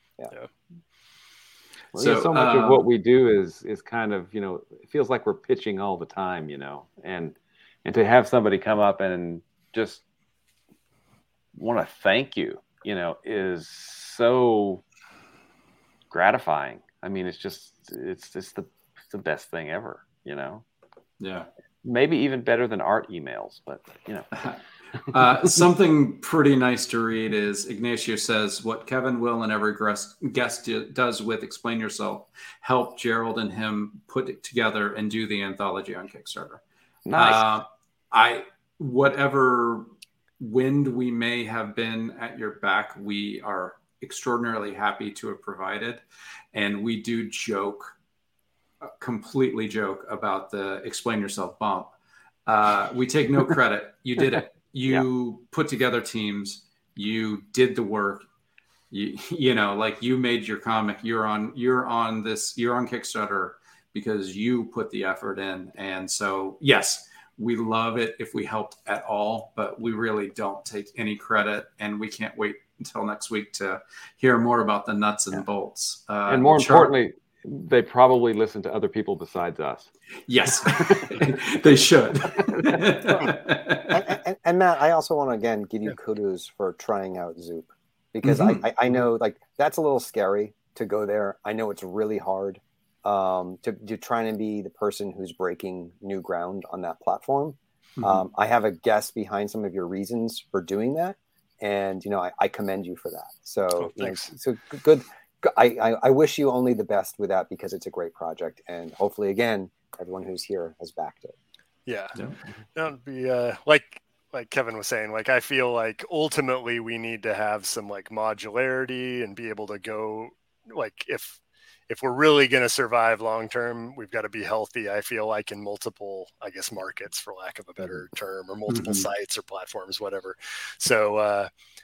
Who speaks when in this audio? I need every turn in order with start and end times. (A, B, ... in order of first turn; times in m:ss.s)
0:01.9-0:10.0 A
0:02.0-0:02.8 B
0:11.6-0:14.8 A
0:16.1-0:20.6 A
0:21.2-0:21.5 B
0:21.8-0:24.5 A
0:24.3-0:24.6 B
0:25.1-0:36.6 B
0:37.1-0:37.4 A
0:37.2-0:39.9 B
0:40.4-0:47.9 B
0:48.8-0:51.9 B
0:52.5-0:58.3 B
0:54.4-0:55.1 A
0:58.9-1:16.9 B
1:16.3-1:19.9 A
1:20.3-1:24.0 B
1:20.6-1:21.2 A
1:22.4-1:22.8 A
1:23.9-1:51.4 C
1:28.2-1:28.6 B
1:38.0-1:38.2 B
1:43.8-1:44.3 D
1:51.9-1:52.2 D
1:52.8-2:01.4 D
2:01.9-2:11.5 D
2:08.7-2:09.1 B